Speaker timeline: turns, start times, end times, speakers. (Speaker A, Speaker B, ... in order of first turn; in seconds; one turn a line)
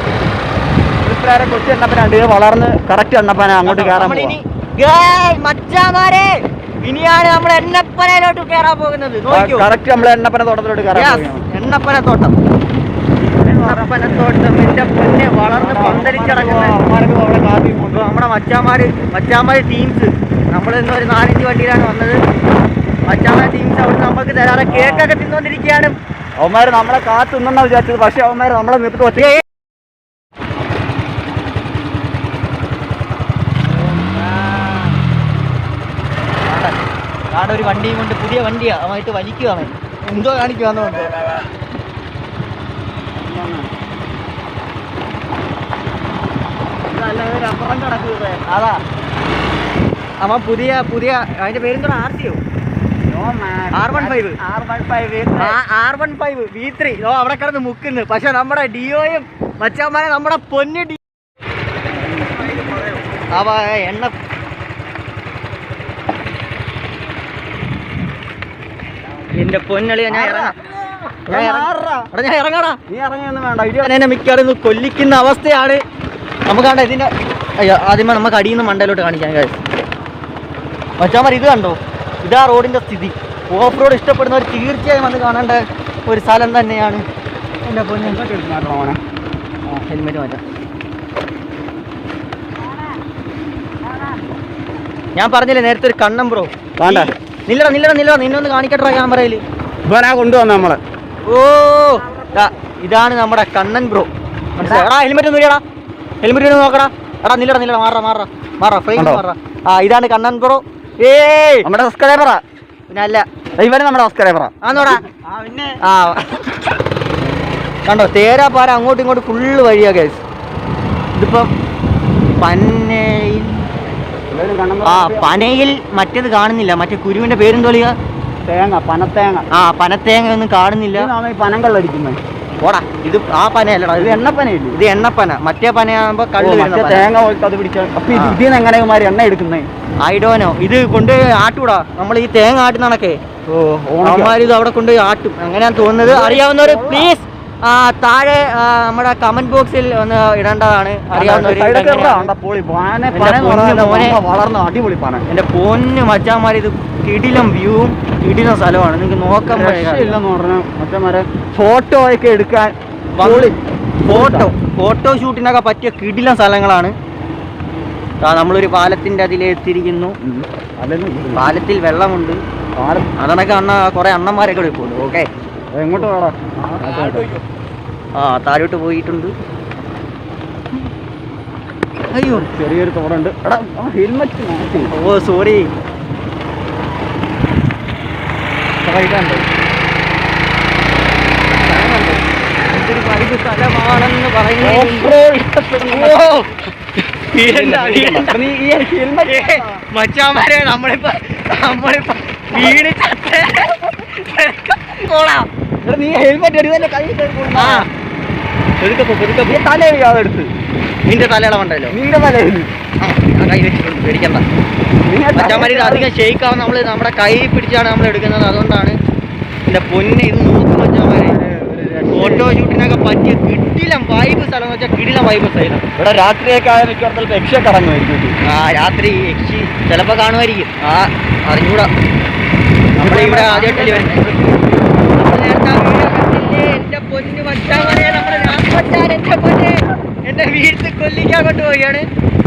Speaker A: 1.0-4.4
Speaker B: 3.6-9.7
Speaker A: 9.3-11.5
Speaker B: 10.9-12.3
Speaker A: 13.4-14.3
Speaker B: 13.6-16.8
Speaker A: 15.5-18.0
Speaker B: 17.9-22.2
Speaker B: 23.1-25.9
Speaker A: 24.7-25.1
Speaker A: 26.4-29.3
Speaker B: 29.1-29.4
Speaker B: 33.7-34.9
Speaker B: 36.4-36.8
Speaker B: 37.3-41.1
Speaker A: 43.2-43.7
Speaker B: 46.9-48.8
Speaker B: 50.2-52.4
Speaker A: 53.0-55.5
Speaker B: 53.7-54.4
Speaker B: 55.4-61.0
Speaker A: 62.2-62.6
Speaker B: 63.3-64.1
Speaker B: 69.3-70.6
Speaker A: 70.1-70.5
Speaker B: 71.3-72.8
Speaker A: 71.3-72.1
Speaker A: 72.9-73.9
Speaker B: 73.8-75.8
Speaker B: 76.5-79.5
Speaker B: 81.0-87.0
Speaker B: 87.6-88.2
Speaker A: 88.0-89.0
Speaker B: 89.7-90.4
Speaker B: 95.2-99.4
Speaker A: 96.8-97.1
Speaker A: 99.8-100.8
Speaker B: 101.3-105.6
Speaker A: 104.6-104.9
Speaker B: 106.2-111.7
Speaker A: 108.9-109.2
Speaker A: 111.6-112.4
Speaker B: 112.9-113.2
Speaker A: 113.6-115.8
Speaker B: 114.6-115.0
Speaker B: 115.8-116.6
Speaker B: 117.8-120.2
Speaker B: 121.2-121.5
Speaker B: 122.4-123.6
Speaker A: 124.3-125.4
Speaker B: 124.8-127.9
Speaker A: 128.4-129.4
Speaker B: 129.5-131.1
Speaker A: 130.9-132.2
Speaker B: 132.6-134.2
Speaker A: 134.0-134.7
Speaker B: 134.7-137.0
Speaker A: 136.4-139.7
Speaker B: 140.0-143.2
Speaker A: 143.5-144.5
Speaker B: 144.0-152.3
Speaker A: 146.0-147.1
Speaker A: 151.1-155.2
Speaker B: 153.1-154.2
Speaker B: 155.3-160.2
Speaker A: 159.5-164.5
Speaker B: 163.2-163.5
Speaker B: 164.0-166.9
Speaker B: 168.2-170.1
Speaker A: 170.2-171.5
Speaker B: 171.3-172.4
Speaker A: 172.8-173.1
Speaker B: 173.2-175.3
Speaker A: 175.7-177.3
Speaker B: 178.2-179.3
Speaker B: 182.1-182.4
Speaker A: 182.2-184.9
Speaker B: 184.9-185.7
Speaker B: 188.8-189.4
Speaker B: 191.5-195.2
Speaker A: 194.6-196.2
Speaker B: 195.9-196.5
Speaker B: 197.1-198.4
Speaker A: 197.4-199.8
Speaker B: 199.2-205.5
Speaker A: 205.8-207.8
Speaker B: 207.5-207.9
Speaker B: 208.8-209.6
Speaker A: 209.5-210.5
Speaker B: 211.1-211.9
Speaker A: 211.9-212.7
Speaker B: 213.0-214.4
Speaker A: 215.0-216.1
Speaker B: 215.3-218.9
Speaker B: 219.7-221.3
Speaker A: 220.9-222.5
Speaker B: 222.1-225.8
Speaker A: 226.0-228.3
Speaker B: 228.4-231.9
Speaker A: 232.9-234.7
Speaker B: 233.0-234.2
Speaker B: 235.2-242.1